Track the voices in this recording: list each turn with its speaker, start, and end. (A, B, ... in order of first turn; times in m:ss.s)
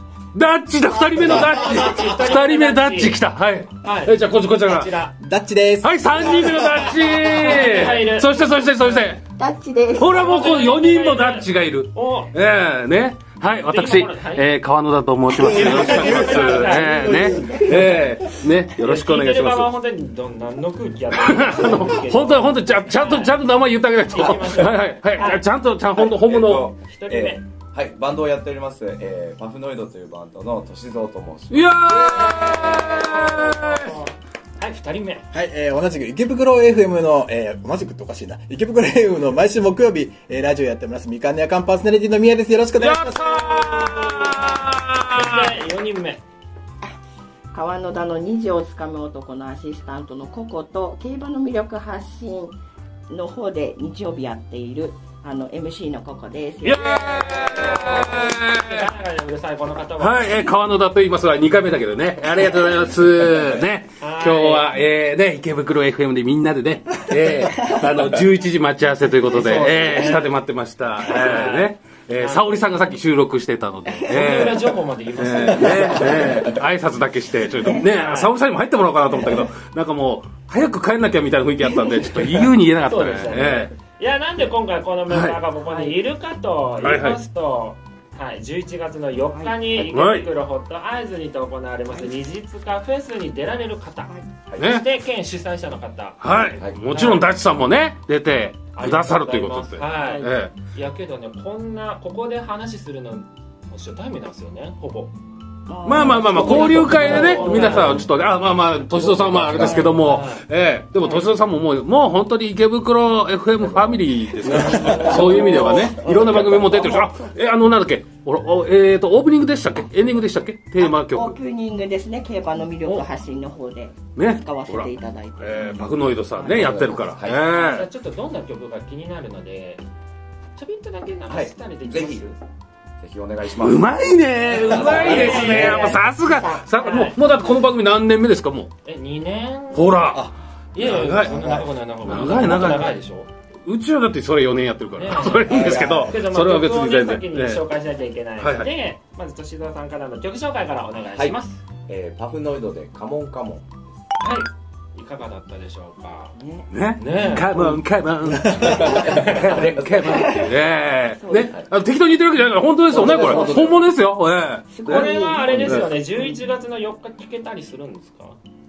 0:00.3-0:04.9 A
0:01.2-0:03.2 B
0:01.2-0:01.5 C
0:03.8-0:05.2 B
0:05.2-0:06.8 D
0:05.8-0:09.2 A
0:06.3-0:09.2 B
0:09.4-0:10.1 C
0:10.0-0:19.7 A
0:10.0-0:12.3 B
0:13.4-0:14.5 B
0:15.4-0:18.0 D
0:15.4-0:17.3 B
0:16.8-0:18.0 C
0:18.8-0:23.4 B
0:21.1-0:26.7 A
0:24.0-0:25.4 B
0:26.0-0:31.9 E
0:26.8-0:27.4 B
0:31.5-0:34.0 A
0:32.3-0:35.3 B
0:35.3-0:44.4 D
0:42.8-0:45.5 A
0:44.1-0:44.6 B
0:45.1-0:46.2 B
0:47.5-0:52.6 C
0:53.1-0:57.3 C
0:56.6-0:58.9 A
0:57.2-1:00.4 B
1:00.0-1:23.7 A
1:04.0-1:04.7 B
1:07.3-1:07.9 C
1:09.3-1:10.3 B
1:09.8-1:10.2 C
1:11.0-1:12.7 B
1:13.9-1:14.4 C
1:14.1-1:16.4 B
1:15.7-1:16.4 E
1:17.5-1:17.9 C
1:17.7-1:18.3 B
1:19.2-1:19.5 C
1:21.6-1:22.4 C
1:22.8-1:36.2 B
1:25.1-1:25.4 A
1:25.6-1:26.0 C
1:26.8-1:27.2 A
1:29.3-1:29.6 C
1:29.9-1:30.3 A
1:31.9-1:32.1 C
1:34.6-1:34.8 A
1:36.2-1:40.5 A
1:36.9-1:37.3 B
1:38.7-1:45.1 B
1:40.0-1:40.3 C
1:45.7-1:48.1 C
1:45.8-2:01.4 A
1:46.2-1:48.0 B
1:47.7-1:47.9 E
1:48.9-1:50.0 E
1:49.3-1:49.9 C
1:49.9-1:50.4 B
1:51.0-1:51.3 C
1:53.6-1:57.0 E
1:54.4-1:57.2 C
2:00.8-2:05.9 C
2:04.1-2:07.9 A
2:06.4-2:07.5 E
2:07.5-2:09.8 B
2:10.6-2:12.4 B
2:11.3-2:12.2 E
2:13.0-2:13.9 E
2:13.5-2:18.7 A
2:14.5-2:15.9 E
2:14.6-2:16.1 B
2:15.0-2:15.7 C
2:16.3-2:16.6 C
2:16.6-2:17.2 B
2:18.8-2:20.1 B
2:19.7-2:21.4 A
2:20.7-2:23.3 B
2:20.8-2:22.5 E
2:22.0-2:22.9 A
2:23.6-2:27.6 A
2:24.9-2:31.6 B
2:25.5-2:26.1 E
2:28.4-2:28.7 A
2:31.1-2:33.8 E
2:34.2-2:36.4 B
2:36.4-2:36.7 C
2:36.7-2:45.1 A
2:37.0-2:37.5 B
2:37.5-2:37.8 E
2:38.5-2:40.4 E
2:38.6-2:39.6 B
2:40.0-2:40.6 C
2:41.2-2:41.5 C
2:42.9-2:43.9 E
2:43.0-2:43.6 C
2:44.7-2:45.8 C
2:44.8-2:48.4 B
2:44.8-2:45.9 E
2:45.6-2:45.9 A